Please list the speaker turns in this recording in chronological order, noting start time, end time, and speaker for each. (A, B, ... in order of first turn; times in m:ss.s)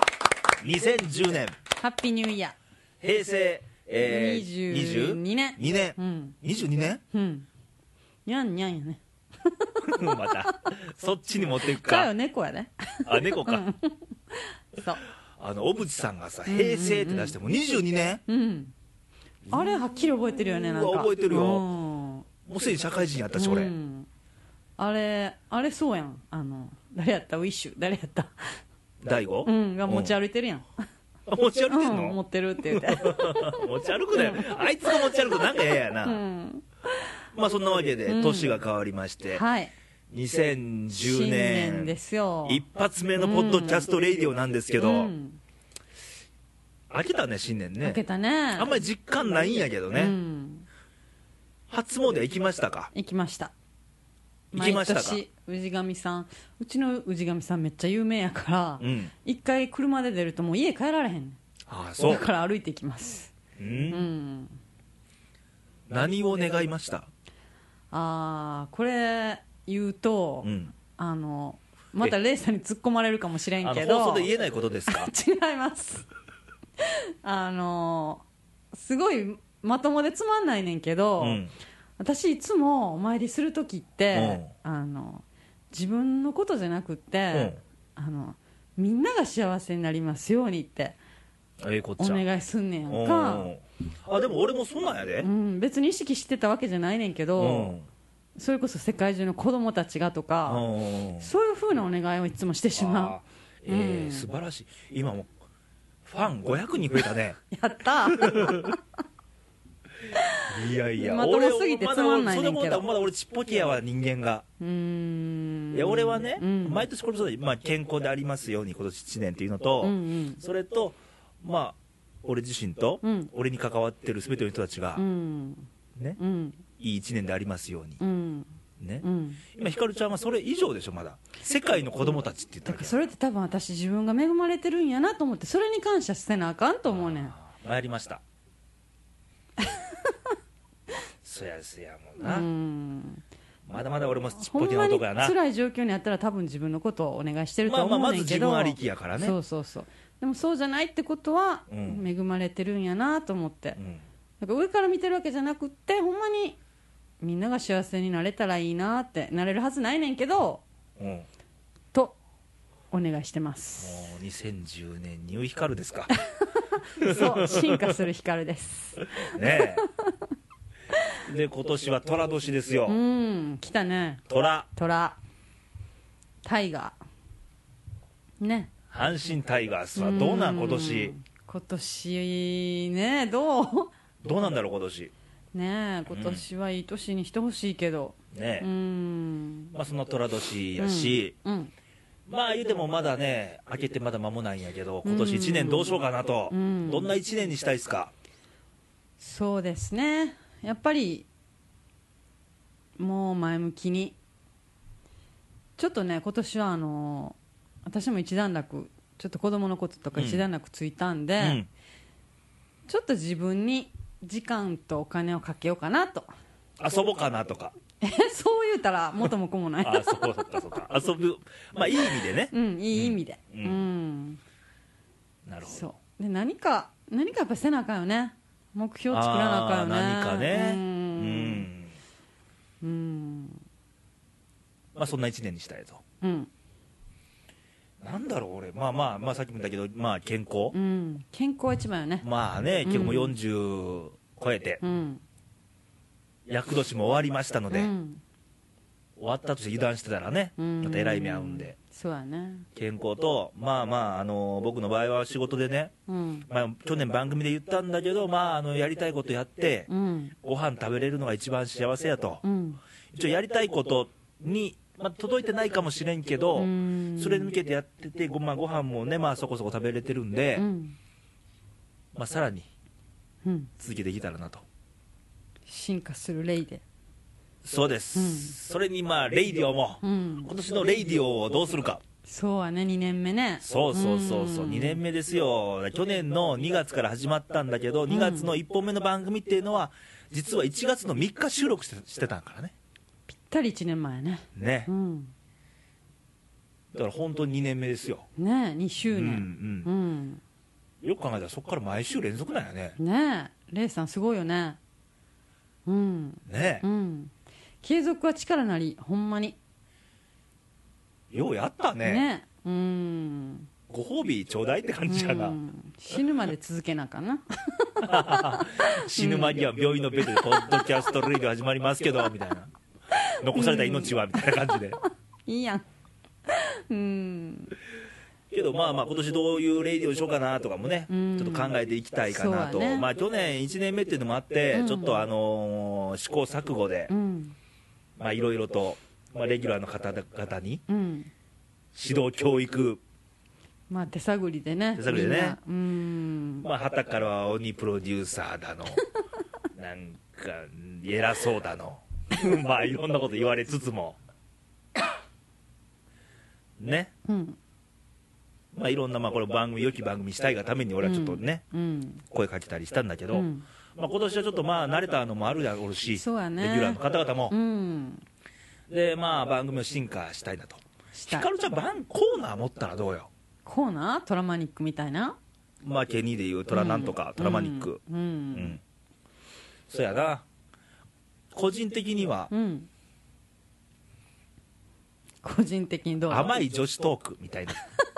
0:00.6-0:01.6 A
0:01.8-0:02.6 B
0:03.0-0:07.0 A
0:04.0-0:06.4 B
0:07.1-0:07.5 B
0:08.3-0:10.6 B
0:09.8-0:12.1 A
0:11.6-0:15.0 B
0:13.1-0:13.6 A
0:15.4-0:18.2 A
0:16.5-0:17.4 B
0:18.3-0:18.7 B
0:19.5-0:21.6 A
0:19.5-0:22.3 B
0:22.5-0:23.7 A
0:23.4-0:24.1 B
0:24.8-0:28.6 B
0:29.0-0:30.1 A
0:29.4-0:30.7 B
0:31.3-0:36.2 A
0:31.7-0:36.6 B
0:37.3-0:39.4 A
0:38.1-0:38.6 B
0:39.3-0:39.7 B
0:40.1-0:41.9 A
0:41.0-0:42.6 B
0:42.5-0:45.1 A
0:43.2-0:43.9 B
0:44.8-0:45.4 B
0:46.9-0:48.0 A
0:47.8-0:48.7 B
0:48.6-0:50.1 A
0:50.0-0:50.7 B
0:51.7-0:52.9 A
0:52.9-0:53.5 B
0:54.5-0:55.2 A
0:54.5-1:01.4 B
0:58.8-0:59.1 A
1:01.7-1:02.2 A
1:02.0-1:03.3 B
1:03.6-1:04.1 A
1:03.9-1:04.6 B
1:05.9-1:07.1 A
1:07.9-1:14.3 B
1:10.4-1:10.8 A
1:13.6-1:15.1 A
1:14.9-1:16.1 B
1:16.8-1:21.4 B
1:21.2-1:21.5 A
1:22.0-1:31.0 B
1:24.1-1:24.5 A
1:27.3-1:27.6 A
1:31.6-1:32.2 A
1:32.0-1:33.5 B
1:32.9-1:35.3 A
1:35.2-1:37.8 B
1:37.4-1:37.9 A
1:38.4-1:40.6 B
1:40.5-1:41.3 A
1:41.2-1:44.3 B
1:42.8-1:45.3 A
1:46.1-1:47.4 A
1:47.5-1:48.8 B
1:48.1-1:48.8 A
1:50.5-1:54.4 A
1:51.0-1:52.8 B
1:54.6-1:56.8 B
1:55.7-2:05.0 A
1:59.8-2:00.4 B
2:03.0-2:03.3 B
2:05.0-2:05.7 B
2:06.2-2:06.6 B
2:06.8-2:08.0 A
2:08.0-2:08.5 B
2:08.8-2:13.0 A
2:09.0-2:09.4 B
2:12.6-2:17.3 B
2:16.9-2:18.2 A
2:21.2-2:22.5 A
2:22.2-2:23.2 B
2:23.7-2:25.4 A
2:24.4-2:33.8 B
2:27.6-2:29.3 A
2:31.7-2:32.0 A
2:33.8-2:34.0 A
2:34.4-2:36.6 B
2:37.2-2:40.6 B
2:41.0-2:41.3 A
2:41.9-2:42.2 B
2:42.9-2:44.1 B
2:43.8-2:46.1 A
2:46.9-2:49.6 B
2:47.0-2:47.9 A
2:49.2-2:49.8 A
2:51.2-2:53.0 A
2:52.9-2:54.2 B
2:54.3-2:54.7 A
2:54.7-2:55.2 B
2:56.4-2:57.0 B
2:58.4-2:58.7 B
2:58.9-3:01.1 A
3:00.0-3:03.9 B
3:04.2-3:05.1 A
3:05.5-3:09.8 B
3:06.1-3:06.4 A
3:08.3-3:08.7 A
3:09.7-3:11.3 A
3:10.8-3:11.7 B
3:12.3-3:18.1 A
3:15.0-3:16.0 B
3:16.5-3:17.2 B
3:19.2-3:21.3 B
3:23.0-3:24.2 B
3:25.8-3:31.6 B
3:30.2-3:30.4 A
3:31.4-3:31.7 A
3:32.9-3:36.3 B
3:36.8-3:37.7 A
3:38.0-3:40.4 B
3:39.8-3:43.8 A
3:42.5-3:44.4 B
3:45.5-3:45.9 A
3:45.6-3:51.7 B
3:49.1-3:51.9 A
3:52.8-3:53.6 B
3:55.0-3:56.0 A
3:56.2-3:56.5 B
3:58.0-4:00.8 A
4:00.7-4:02.3 B
4:02.2-4:04.8 A
4:02.8-4:03.4 B
4:04.8-4:05.2 B
4:06.5-4:07.9 A
4:07.7-4:08.2 B
4:09.2-4:11.8 A
4:10.6-4:12.7 B
4:12.8-4:15.9 A
4:16.1-4:16.5 B
4:16.5-4:19.9 A
4:19.9-4:20.4 B
4:20.4-4:22.4 A
4:22.4-4:22.8 B
4:23.1-4:30.7 A
4:26.6-4:27.5 B
4:30.6-4:31.0 B
4:32.1-4:32.7 A
4:33.4-4:33.7 B
4:33.8-4:34.6 A
4:35.7-4:36.8 B
4:37.6-4:42.0 A
4:38.2-4:38.6 B
4:40.0-4:40.5 B
4:42.2-4:45.0 B
4:43.6-4:52.7 A
4:48.1-4:48.6 B
4:53.3-4:55.3 B
4:54.6-4:54.9 A
4:56.9-4:58.3 A
4:58.4-5:00.4 B
4:59.1-4:59.9 A
5:01.0-5:03.0 A
5:03.0-5:04.8 B
5:05.9-5:07.3 B
5:06.5-5:06.8 A
5:07.8-5:09.6 B
5:11.3-5:12.3 A
5:12.0-5:13.7 B
5:13.9-5:15.6 A
5:15.1-5:19.6 B
5:18.0-5:22.7 A
5:20.3-5:20.6 B
5:23.2-5:24.6 B
5:23.4-5:25.0 A
5:25.5-5:25.8 B
5:26.5-5:27.8 B
5:28.5-5:37.1 A
5:31.1-5:33.1 B
5:34.7-5:35.3 B
5:37.1-5:37.6 B
5:38.2-5:40.8 A
5:40.9-5:41.3 B
5:41.9-5:43.0 A
5:43.9-5:46.7 B
5:45.0-5:45.6 A
5:46.6-5:49.0 A
5:49.8-5:54.2 A
5:56.8-5:57.1 A
5:57.2-5:57.6 B
5:58.7-6:01.6 A
6:01.0-6:02.2 B
6:02.3-6:07.5 A
6:03.3-6:03.6 B
6:06.2-6:07.0 B
6:07.5-6:08.2 B
6:08.9-6:13.3 A
6:11.1-6:11.5 B
6:13.6-6:15.4 B
6:15.8-6:18.0 A
6:16.7-6:18.8 B
6:18.5-6:18.8 A
6:19.9-6:20.4 A
6:21.5-6:22.5 A
6:22.5-6:22.9 B
6:25.4-6:26.5 B
6:26.3-6:27.8 A